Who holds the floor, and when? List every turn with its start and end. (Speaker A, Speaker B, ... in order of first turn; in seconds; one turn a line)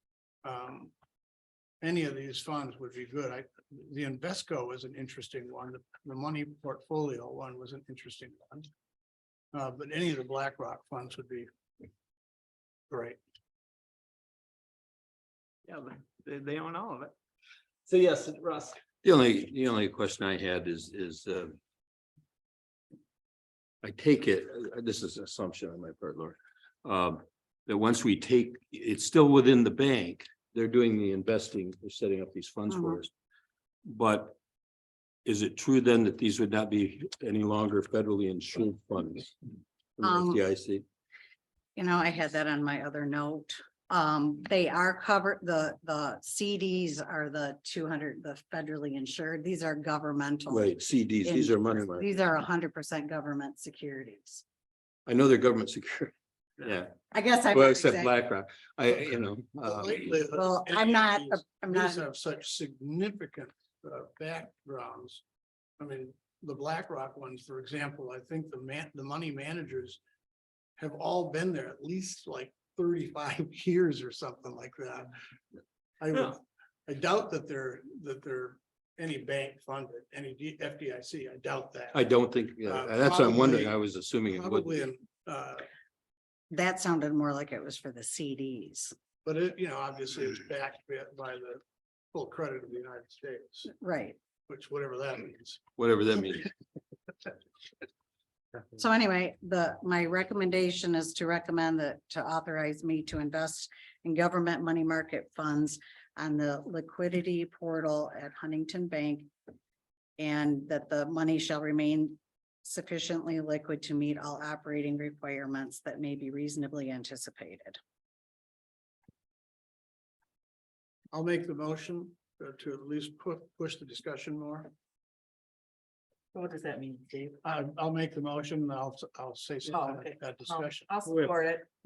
Speaker A: 0.4-0.9
Speaker A: 1.8-8.7
Speaker A: 9.5-11.5
Speaker A: 12.9-13.2
Speaker B: 15.7-17.1
Speaker B: 17.9-18.8
Speaker C: 19.0-21.6
Speaker C: 23.8-33.1
Speaker D: 32.7-33.0
Speaker C: 33.9-34.4
Speaker C: 35.2-39.4
Speaker C: 40.0-40.8
Speaker D: 40.0-40.4
Speaker D: 41.8-54.4
Speaker C: 50.5-52.0
Speaker C: 55.0-56.9
Speaker D: 57.1-58.1
Speaker C: 57.5-60.1
Speaker A: 59.6-65.2
Speaker D: 60.3-62.0
Speaker A: 65.8-70.0
Speaker A: 70.8-75.1
Speaker A: 76.0-82.0
Speaker C: 81.9-84.7
Speaker A: 82.7-85.6
Speaker D: 86.5-88.9
Speaker A: 89.2-93.7
Speaker D: 93.8-94.2
Speaker A: 94.5-95.6
Speaker C: 95.8-96.5
Speaker D: 98.8-109.3
Speaker D: 110.2-117.8
Speaker A: 121.1-124.7
Speaker E: 126.3-127.4
Speaker A: 127.4-130.9
Speaker E: 129.7-131.7
Speaker B: 131.1-131.3